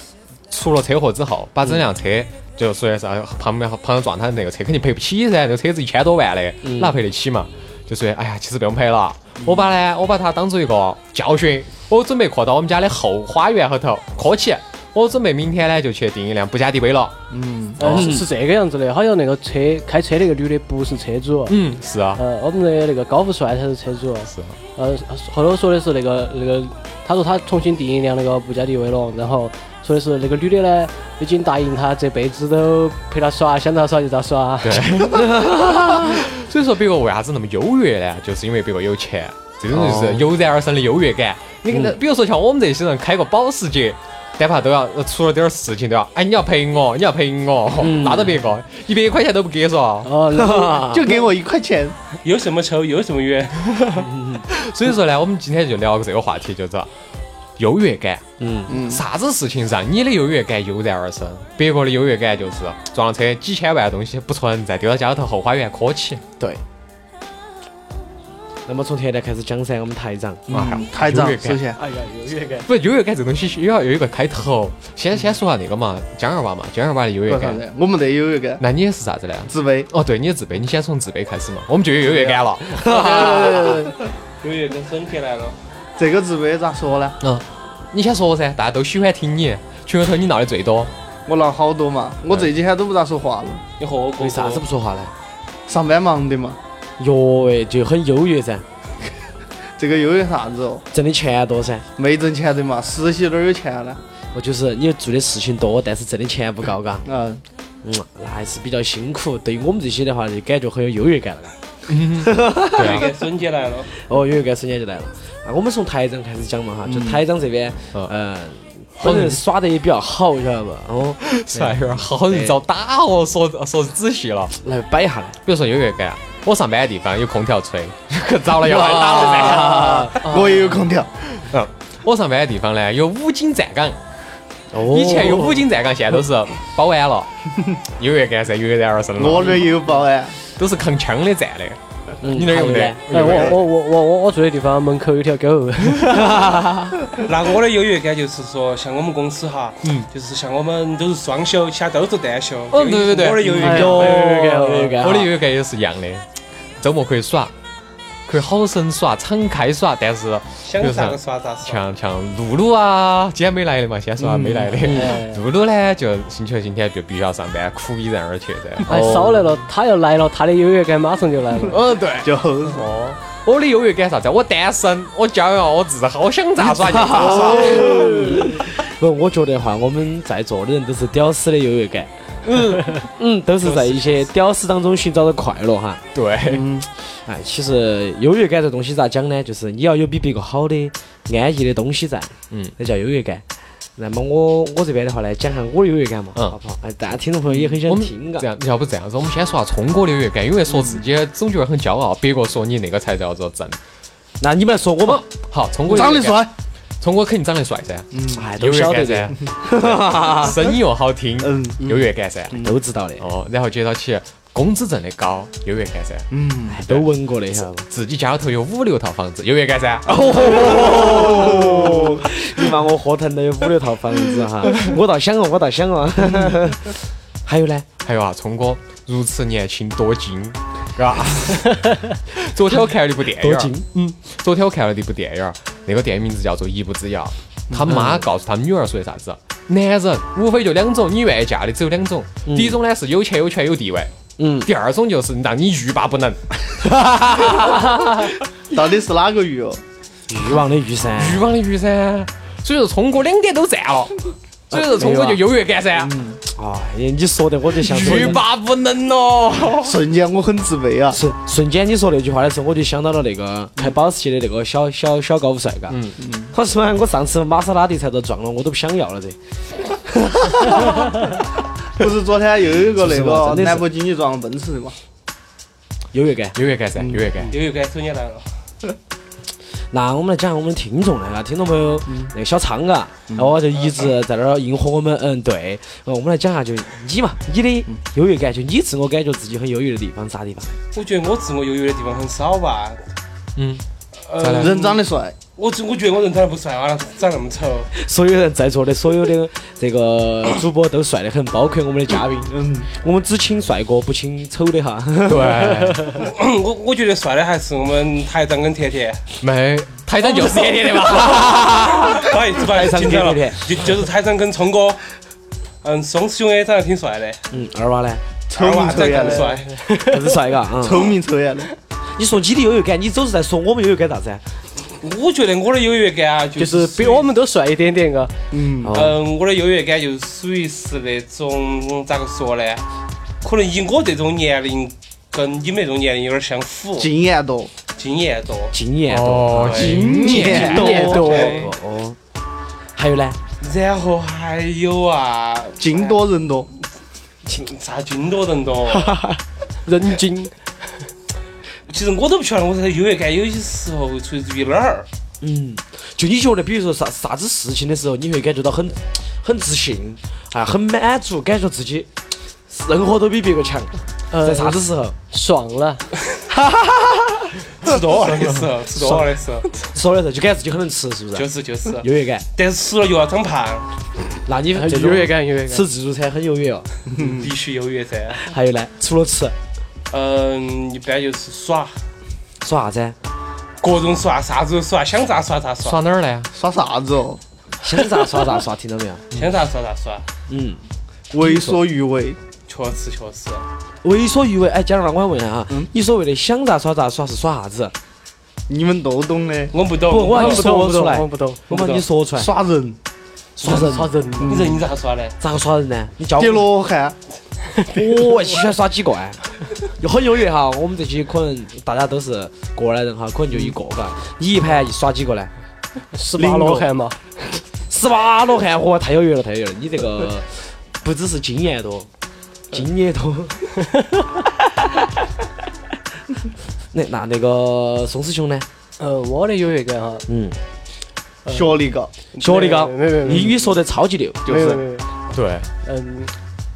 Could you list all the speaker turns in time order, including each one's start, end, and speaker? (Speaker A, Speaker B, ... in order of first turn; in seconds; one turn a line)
Speaker A: 0.5-17.1
Speaker B: 6.6-7.0
Speaker C: 17.3-17.8
Speaker D: 17.8-21.6
Speaker A: 17.8-18.1
Speaker B: 17.9-18.3
Speaker A: 21.5-22.2
Speaker D: 22.1-35.0
Speaker A: 24.3-24.6
Speaker A: 34.6-50.1
Speaker B: 35.1-36.2
Speaker B: 39.7-40.3
Speaker B: 47.8-48.4
Speaker D: 50.0-51.0
Speaker B: 50.3-51.2
Speaker C: 50.8-51.9
Speaker E: 52.2-53.9
Speaker A: 53.7-56.9
Speaker B: 54.1-54.4
Speaker A: 57.6-66.2
Speaker B: 58.4-58.7
Speaker C: 58.7-59.0
Speaker B: 68.7-70.4
Speaker A: 70.5-71.6
Speaker C: 70.5-71.8
Speaker D: 71.8-72.7
Speaker A: 72.6-77.6
Speaker C: 77.3-78.6
Speaker A: 78.6-83.3
Speaker C: 79.4-79.9
Speaker C: 82.0-84.1
Speaker B: 82.8-83.8
Speaker E: 84.4-85.6
Speaker C: 86.0-87.2
Speaker A: 87.2-90.9
Speaker C: 91.2-93.6
Speaker E: 93.8-94.6
Speaker B: 94.2-95.1
Speaker C: 95.7-96.6
Speaker B: 97.0-98.6
Speaker C: 99.8-100.8
Speaker B: 100.9-101.8
Speaker C: 102.0-104.0
Speaker B: 104.3-107.0
Speaker C: 107.0-107.4
Speaker B: 107.8-111.5
Speaker A: 111.9-113.1
Speaker B: 112.2-113.0
Speaker E: 112.8-113.9
Speaker B: 114.0-122.6
Speaker C: 116.8-117.2
Speaker A: 119.0-119.4
Speaker A: 121.2-124.5
Speaker B: 124.6-125.4
Speaker A: 125.4-130.0
Speaker C: 128.5-131.1
Speaker B: 129.7-130.0
Speaker D: 130.2-130.8
Speaker A: 131.3-134.0
Speaker B: 134.7-135.7
Speaker A: 134.9-137.3
Speaker A: 138.0-139.7
Speaker C: 139.2-140.3
Speaker A: 140.6-143.6
Speaker B: 142.2-143.0
Speaker D: 143.1-146.4
Speaker C: 143.1-143.6
Speaker B: 146.0-147.0
Speaker E: 147.2-154.2
Speaker A: 149.8-150.1
Speaker A: 152.7-153.5
Speaker B: 153.4-155.3
Speaker D: 153.4-155.2
Speaker A: 155.0-156.2
Speaker A: 156.8-157.5
Speaker A: 158.2-169.4
Speaker E: 160.6-161.8
Speaker C: 164.2-164.7
Speaker B: 164.8-165.2
Speaker D: 164.8-165.4
Speaker D: 168.8-171.8
Speaker B: 168.9-169.3
Speaker A: 171.7-178.3
Speaker C: 172.2-172.8
Speaker B: 176.9-186.0
Speaker C: 177.0-178.4
Speaker A: 186.1-186.7
Speaker C: 186.4-186.8
Speaker B: 187.1-193.4
Speaker A: 192.5-192.7
Speaker B: 193.9-198.5
Speaker A: 197.5-203.8
Speaker C: 200.7-201.0
Speaker B: 204.4-205.2
Speaker A: 205.0-206.5
Speaker C: 205.8-206.5
Speaker A: 207.0-212.6
Speaker C: 208.1-208.4
Speaker B: 208.3-210.6
Speaker C: 211.4-212.8
Speaker B: 212.6-213.3
Speaker A: 213.2-216.3
Speaker C: 216.3-216.8
Speaker B: 216.7-217.8
Speaker A: 216.8-221.7
Speaker B: 220.1-227.8
Speaker C: 220.4-222.2
Speaker A: 228.0-244.1
Speaker B: 233.4-233.8
Speaker C: 237.7-238.0
Speaker B: 237.9-238.2
Speaker B: 242.4-242.8
Speaker B: 244.4-244.7
Speaker A: 244.6-246.4
Speaker B: 246.8-247.9
Speaker C: 248.7-249.8
Speaker B: 250.3-251.5
Speaker A: 251.1-256.1
Speaker B: 254.7-255.4
Speaker C: 256.0-256.4
Speaker B: 256.4-258.4
Speaker A: 257.8-260.0
Speaker C: 259.8-261.2
Speaker B: 261.1-266.0
Speaker A: 265.9-266.2
Speaker C: 266.2-266.5
Speaker B: 266.5-269.4
Speaker C: 270.7-271.0
Speaker C: 271.9-274.9
Speaker B: 273.0-273.9
Speaker B: 276.1-276.5
Speaker A: 276.5-277.5
Speaker C: 277.0-277.3
Speaker E: 277.4-278.4
Speaker B: 279.9-290.7
Speaker C: 282.1-282.3
Speaker C: 283.3-283.6
Speaker E: 290.9-293.0
Speaker A: 293.6-293.8
Speaker E: 294.2-295.0
Speaker A: 294.4-294.7
Speaker C: 294.6-295.3
Speaker E: 295.6-297.9
Speaker B: 297.9-305.7
Speaker C: 302.5-302.9
Speaker A: 305.2-306.2
Speaker E: 306.2-309.2
Speaker A: 309.4-312.3
Speaker B: 311.0-313.7
Speaker E: 312.1-315.0
Speaker E: 315.8-317.4
Speaker B: 317.5-318.2
Speaker C: 318.5-319.6
Speaker E: 318.5-319.8
Speaker D: 319.6-320.4
Speaker B: 320.1-321.1
Speaker C: 320.8-321.7
Speaker B: 322.2-324.4
Speaker E: 325.0-327.2
Speaker D: 326.6-328.3
Speaker C: 328.5-329.1
Speaker B: 328.8-329.2
Speaker E: 328.9-332.8
Speaker E: 333.4-337.1
Speaker C: 337.0-337.7
Speaker E: 337.9-338.7
Speaker B: 338.7-342.2
Speaker A: 339.1-340.2
Speaker E: 339.6-341.7
Speaker C: 339.8-341.6
Speaker D: 340.2-341.6
Speaker B: 342.9-343.4
Speaker E: 343.6-346.2
Speaker C: 345.8-346.7
Speaker E: 347.5-349.2
Speaker B: 348.9-349.4
Speaker D: 349.9-350.5
Speaker E: 351.9-355.1
Speaker B: 355.4-362.1
Speaker B: 362.7-365.1
Speaker D: 364.3-366.1
Speaker E: 367.8-369.8
Speaker B: 369.9-371.5
Speaker E: 371.3-373.9
Speaker B: 372.0-372.4
Speaker B: 374.4-376.9
Speaker D: 374.7-375.9
Speaker C: 377.1-377.5
Speaker E: 377.2-378.5
Speaker B: 378.5-379.5
Speaker E: 380.1-381.9
Speaker B: 382.6-383.1
Speaker E: 383.8-386.0
Speaker A: 385.8-386.5
Speaker C: 386.5-387.4
Speaker B: 387.8-389.2
Speaker E: 389.3-390.3
Speaker B: 390.5-390.8
Speaker C: 391.3-392.4
Speaker B: 391.4-391.8
Speaker E: 392.7-393.7
Speaker B: 394.0-397.9
Speaker C: 398.7-399.7
Speaker E: 399.7-400.7
Speaker B: 400.1-402.5
Speaker D: 400.2-402.0
Speaker C: 401.7-403.0
Speaker B: 403.6-404.1
Speaker D: 403.6-404.6
Speaker C: 404.3-404.8
Speaker E: 404.4-405.3
Speaker B: 405.4-406.7
Speaker C: 406.4-407.1
Speaker D: 407.8-408.6
Speaker B: 407.9-409.4
Speaker B: 410.0-415.5
Speaker D: 416.1-417.6
Speaker C: 416.3-416.9
Speaker B: 417.9-422.1
Speaker B: 422.7-423.6
Speaker D: 423.9-424.2
Speaker B: 426.9-428.7
Speaker D: 429.0-430.2
Speaker B: 430.3-430.6
Speaker D: 431.4-431.8
Speaker C: 431.5-432.1
Speaker D: 432.3-433.8
Speaker B: 432.4-434.4
Speaker C: 434.4-434.8
Speaker D: 434.4-435.1
Speaker A: 435.3-435.7
Speaker D: 435.8-436.3